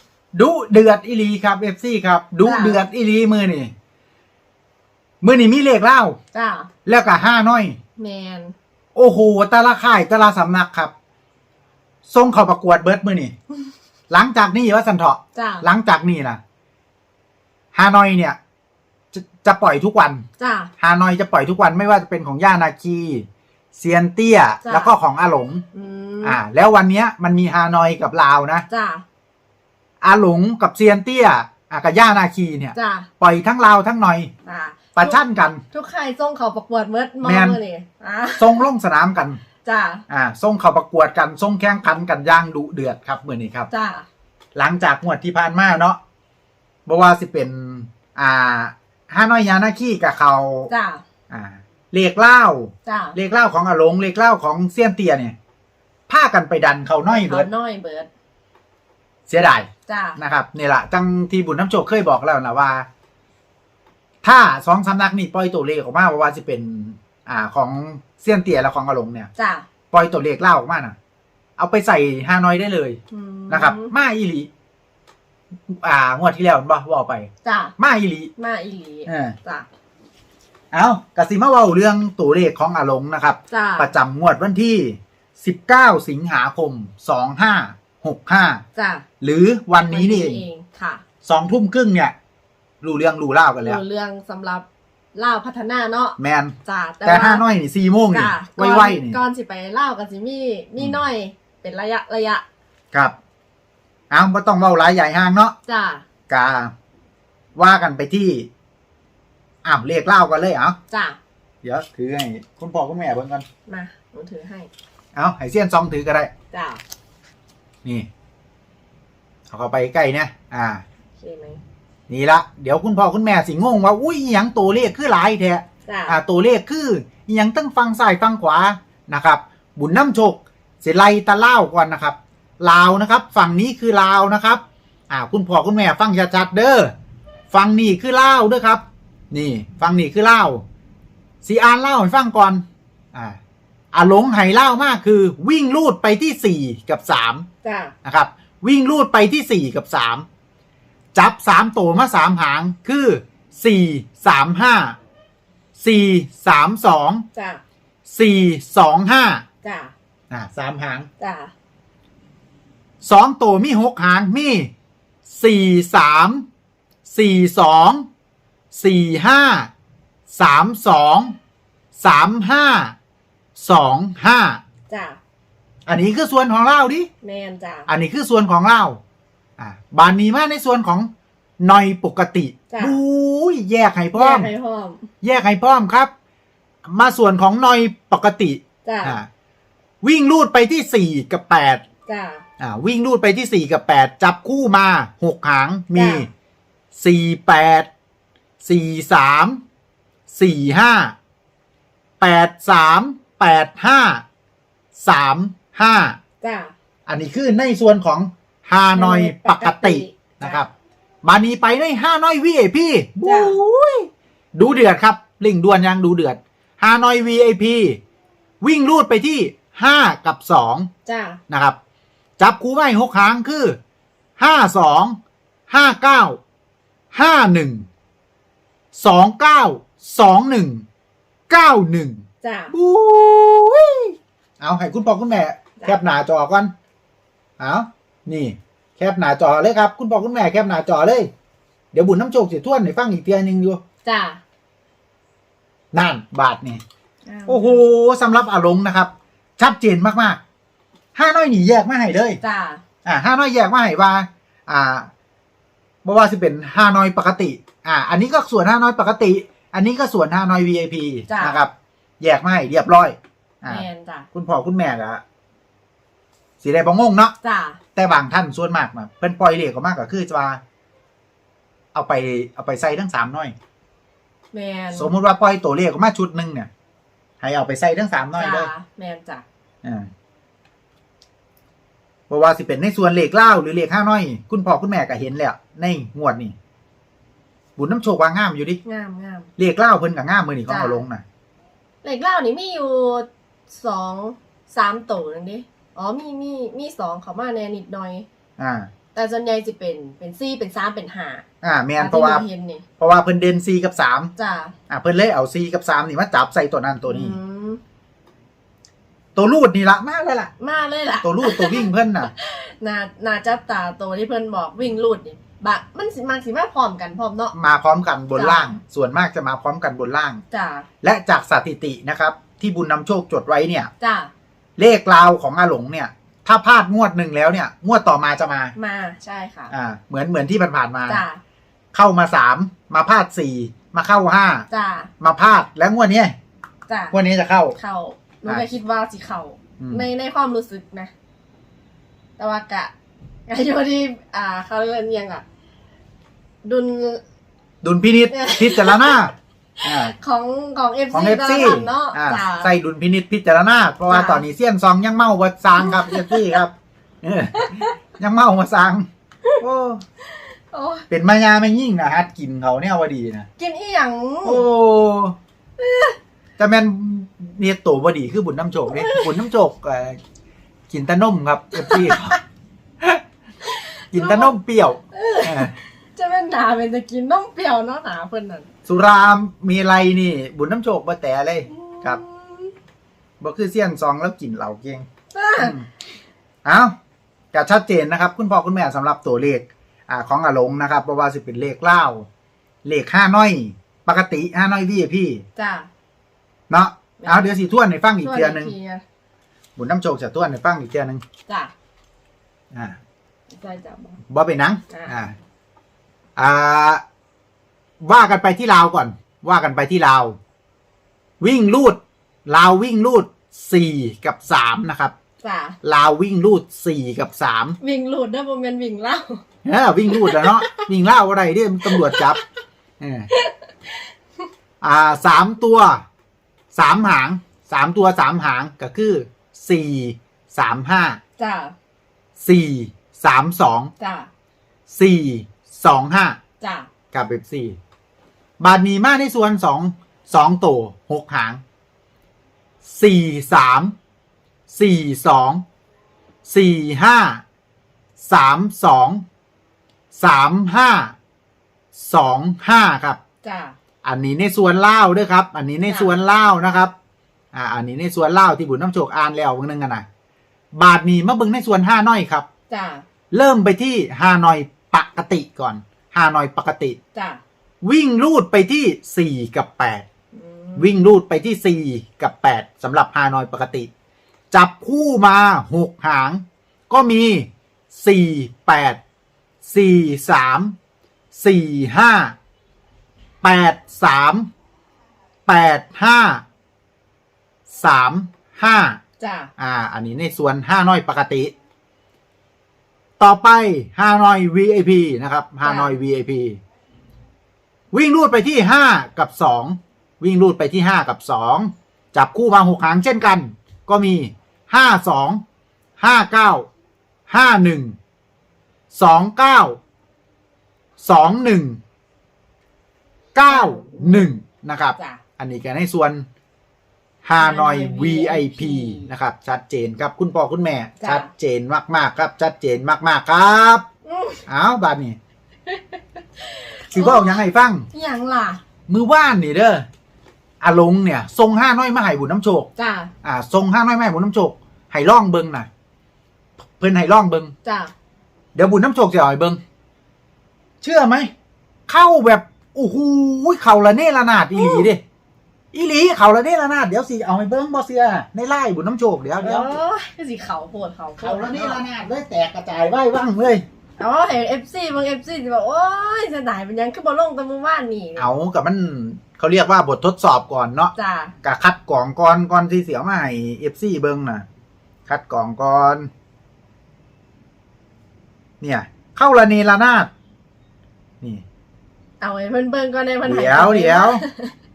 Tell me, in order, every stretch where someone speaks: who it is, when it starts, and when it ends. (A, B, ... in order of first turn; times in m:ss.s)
0:00.3-0:03.7 A
0:02.4-0:02.8 B
0:05.2-0:06.2 A
0:06.3-0:06.7 B
0:06.8-0:07.8 A
0:08.0-0:08.5 B
0:08.9-0:10.9 A
0:12.1-0:13.3 A
0:14.1-0:16.4 A
0:15.4-0:15.6 B
0:17.7-0:18.4 A
0:19.1-0:20.2 A
0:20.4-0:20.7 B
0:20.8-0:25.6 A
0:24.6-0:24.9 B
0:25.7-0:26.4 B
0:26.2-0:28.7 A
0:28.7-0:29.0 B
0:30.0-0:34.3 A
0:32.7-0:33.1 B
0:34.4-0:35.2 B
0:35.0-0:35.6 A
0:35.7-0:38.6 B
0:37.2-0:37.6 A
0:38.4-0:39.4 A
0:39.6-0:40.0 B
0:40.1-0:43.7 A
0:43.7-0:44.1 B
0:44.6-0:46.0 A
0:46.8-0:50.7 A
0:50.7-0:51.0 B
0:51.3-0:55.3 A
0:52.8-0:53.2 B
0:56.1-0:57.5 A
0:57.1-0:58.1 B
0:59.3-1:02.9 A
0:59.9-1:00.2 B
1:04.2-1:09.3 A
1:09.4-1:09.7 B
1:09.9-1:11.0 A
1:11.6-1:13.0 A
1:13.1-1:13.9 B
1:13.5-1:14.5 A
1:15.7-1:18.3 A
1:17.4-1:17.7 B
1:18.4-1:19.7 B
1:19.1-1:19.4 A
1:20.7-1:28.6 A
1:23.5-1:23.9 B
1:28.8-1:29.0 B
1:29.2-1:30.4 A
1:29.9-1:31.0 B
1:31.2-1:32.2 A
1:32.8-1:33.8 A
1:33.6-1:37.4 B
1:36.2-1:39.2 A
1:38.1-1:42.4 B
1:44.1-1:45.6 A
1:45.7-1:46.0 B
1:46.3-1:46.7 A
1:47.6-1:48.5 A
1:49.6-1:50.8 A
1:50.9-1:51.2 B
1:51.6-1:53.4 A
1:53.7-1:54.7 B
1:55.2-1:56.3 A
1:56.5-1:56.8 B
1:59.5-2:00.8 A
2:01.2-2:01.6 B
2:02.1-2:16.9 A
2:05.9-2:06.2 B
2:17.5-2:20.6 A
2:21.4-2:23.4 A
2:23.9-2:27.4 A
2:27.6-2:27.9 B
2:28.0-2:30.2 A
2:31.1-2:35.0 A
2:35.8-2:37.2 A
2:37.3-2:37.6 B
2:38.0-2:39.4 A
2:39.6-2:39.9 B
2:40.3-2:41.1 A
2:41.2-2:41.5 B
2:43.0-2:44.7 A
2:45.3-2:46.4 A
2:47.0-2:48.1 A
2:48.7-2:49.7 A
2:50.3-2:51.3 A
2:52.0-2:53.0 A
2:53.6-2:54.6 A
2:54.9-2:55.2 B
2:55.8-2:57.1 A
2:57.2-2:57.9 B
2:57.9-2:59.0 A
2:59.6-3:01.1 A
3:01.6-3:04.5 A
3:02.7-3:03.0 B
3:04.1-3:05.1 B
3:05.2-3:06.1 A
3:06.8-3:09.3 A
3:08.8-3:09.2 B
3:10.0-3:11.8 A
3:12.0-3:12.4 B
3:12.6-3:16.3 A
3:15.9-3:16.2 B
3:16.9-3:17.9 A
3:18.6-3:19.6 A
3:20.3-3:21.2 A
3:22.2-3:24.2 A
3:25.0-3:26.2 A
3:26.4-3:26.7 B
3:27.1-3:30.7 A
3:28.9-3:30.6 B
3:31.2-3:38.0 A
3:33.2-3:33.6 B
3:38.6-3:40.9 A
3:41.0-3:41.4 B
3:41.5-3:41.8 A
3:42.4-3:43.8 A
3:44.4-3:45.2 A
3:45.7-3:46.4 A
3:47.1-3:47.8 A
3:48.9-3:50.8 A
3:51.5-3:56.7 A
3:52.4-3:52.7 B
3:57.6-4:01.3 A
4:01.9-4:03.8 A
4:04.0-4:04.4 B
4:05.9-4:06.8 A
4:07.2-4:07.8 B
4:07.5-4:10.4 A
4:11.1-4:12.4 A
4:12.4-4:12.8 B
4:13.0-4:15.1 A
4:16.0-4:25.2 A
4:21.3-4:21.6 B
4:23.7-4:24.3 B
4:26.6-4:27.3 A
4:27.4-4:27.8 B
4:28.0-4:30.6 A
4:31.9-4:33.5 A
4:34.5-4:35.2 B
4:34.9-4:36.7 A
4:37.4-4:38.7 A
4:38.4-4:39.4 B
4:39.8-4:40.1 A
4:42.3-4:46.6 A
4:47.8-4:48.8 A
4:48.8-4:49.5 B
4:49.6-4:51.2 A
4:50.7-4:51.0 B
4:52.0-4:58.2 B
4:58.6-4:58.9 A
4:59.1-5:01.4 B
5:01.6-5:02.4 A
5:02.0-5:02.8 B
5:03.0-5:04.3 A
5:04.4-5:04.8 B
5:04.9-5:07.4 A
5:07.1-5:07.8 B
5:09.4-5:10.5 A
5:10.6-5:17.5 B
5:11.2-5:12.3 A
5:17.5-5:20.4 A
5:18.3-5:18.7 B
5:20.5-5:20.9 B
5:21.0-5:23.9 A
5:24.0-5:24.3 B
5:24.8-5:28.7 A
5:28.8-5:29.7 B
5:29.7-5:31.2 A
5:31.1-5:31.4 B
5:31.9-5:34.7 A
5:34.7-5:35.1 B
5:35.2-5:36.3 A
5:36.9-5:37.2 B
5:37.1-5:37.8 A
5:37.8-5:41.1 B
5:39.8-5:40.1 A
5:42.4-5:42.9 B
5:43.5-5:45.4 B
5:46.6-5:47.2 B
5:47.8-5:49.3 A
5:48.3-5:49.2 B
5:49.8-5:52.7 B
5:49.8-5:50.1 A
5:51.1-5:56.7 A
5:54.1-5:54.4 B
5:55.8-5:56.6 B
5:57.2-5:59.1 A
5:57.6-5:57.9 B
5:59.6-6:00.0 A
6:00.7-6:01.0 B
6:01.1-6:03.5 A
6:03.6-6:04.6 B
6:04.4-6:05.4 A
6:05.8-6:06.1 B
6:06.6-6:10.2 A
6:08.9-6:09.3 B
6:10.9-6:12.4 A
6:11.8-6:12.3 B
6:13.7-6:14.6 B
6:14.1-6:15.7 A
6:15.1-6:18.7 B
6:18.9-6:22.2 A
6:21.7-6:22.7 B
6:23.4-6:25.1 A
6:25.3-6:25.8 B
6:25.6-6:25.8 A
6:26.6-6:26.9 A
6:27.5-6:32.3 A
6:32.8-6:35.4 A
6:35.6-6:35.9 B
6:36.7-6:38.7 A
6:37.2-6:37.5 B
6:38.2-6:39.0 B
6:39.8-6:41.2 A
6:41.5-6:41.7 B
6:43.5-6:44.2 B
6:44.3-6:45.3 A
6:44.9-6:45.2 B
6:46.4-6:47.0 A
6:48.0-6:50.4 A
6:51.4-6:55.1 A
6:55.4-6:55.8 B
6:55.8-6:57.8 A
6:57.8-6:59.4 B
6:59.6-7:02.4 A
7:00.1-7:00.9 B
7:01.9-7:02.3 B
7:03.0-7:03.3 A
7:04.8-7:06.0 A
7:06.7-7:11.2 A
7:11.4-7:11.8 B
7:12.4-7:13.9 A
7:14.0-7:14.3 B
7:14.9-7:16.4 A
7:16.6-7:16.9 B
7:17.1-7:17.8 A
7:18.6-7:21.6 A
7:22.8-7:23.9 A
7:24.7-7:25.6 A
7:26.4-7:27.4 A
7:28.2-7:29.2 A
7:30.1-7:31.1 A
7:31.9-7:33.2 A
7:33.4-7:33.8 B
7:34.0-7:36.9 A
7:35.9-7:36.2 B
7:37.5-7:40.0 A
7:40.7-7:42.4 A
7:42.7-7:43.0 B
7:43.3-7:47.0 A
7:47.1-7:47.4 B
7:47.8-7:50.0 A
7:50.3-7:50.9 B
7:50.8-7:53.9 A
7:54.5-7:59.0 A
7:59.6-8:00.8 A
8:01.3-8:02.3 A
8:03.4-8:04.5 A
8:05.5-8:06.4 A
8:07.7-8:09.0 A
8:09.2-8:09.5 B
8:09.6-8:11.5 A
8:13.2-8:16.6 A
8:15.6-8:15.9 B
8:17.9-8:25.4 A
8:26.0-8:26.7 A
8:27.3-8:28.0 A
8:28.9-8:29.8 A
8:31.0-8:31.8 A
8:33.4-8:36.2 A
8:33.5-8:34.3 B
8:35.0-8:35.2 B
8:37.2-8:43.8 A
8:37.4-8:39.1 B
8:41.0-8:41.3 B
8:44.0-8:44.4 B
8:44.5-8:45.2 A
8:45.7-8:48.6 B
8:46.9-8:47.9 A
8:48.9-8:49.9 A
8:50.6-8:52.7 A
8:52.8-8:53.1 B
8:53.2-8:55.7 A
8:56.8-8:57.5 A
8:57.6-8:57.9 B
8:58.5-8:59.6 A
9:00.8-9:01.3 A
9:01.9-9:05.0 A
9:04.6-9:04.9 B
9:05.7-9:09.7 A
9:09.4-9:11.8 B
9:11.2-9:13.6 A
9:14.0-9:18.3 B
9:18.2-9:24.4 A
9:20.9-9:21.3 B
9:25.1-9:26.1 A
9:28.6-9:30.1 A
9:32.2-9:34.5 B
9:33.2-9:34.2 A